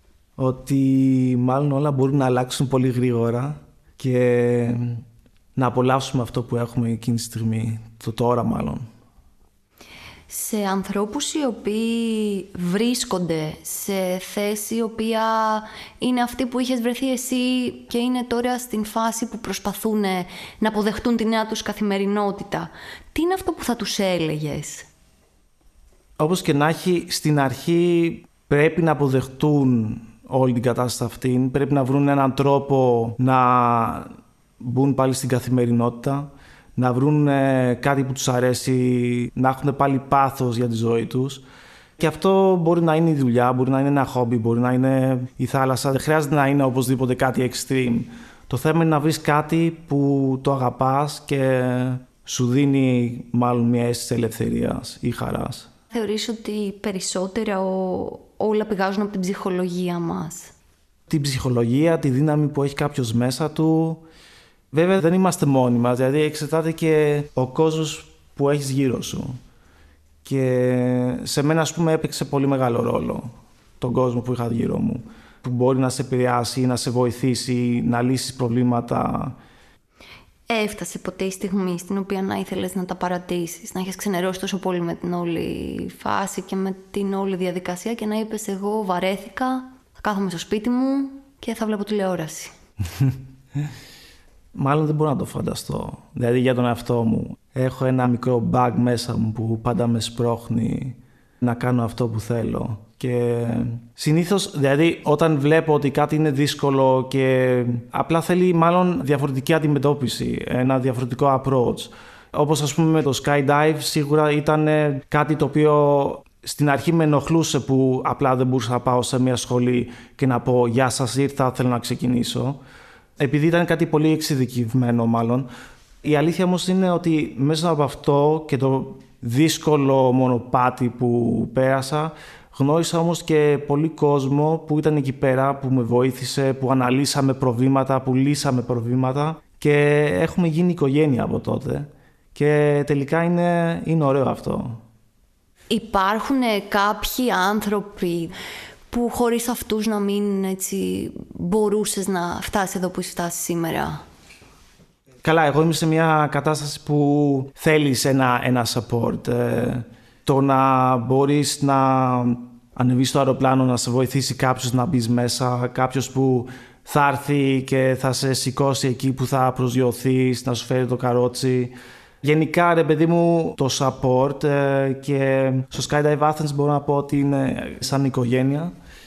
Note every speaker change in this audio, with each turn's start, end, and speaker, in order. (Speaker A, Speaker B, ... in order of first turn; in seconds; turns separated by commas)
Speaker A: 0.4-5.0, Speaker A: 5.5-8.9, Speaker B: 10.3-24.9, Speaker A: 26.2-41.4, Speaker A: 42.0-55.7, Speaker B: 55.9-60.5, Speaker A: 61.1-64.0, Speaker A: 64.7-69.4, Speaker A: 70.2-79.4, Speaker B: 80.5-92.5, Speaker A: 94.5-122.6, Speaker A: 123.2-125.5, Speaker A: 126.0-144.8, Speaker B: 145.7-148.3, Speaker B: 148.9-154.0, Speaker A: 155.2-178.7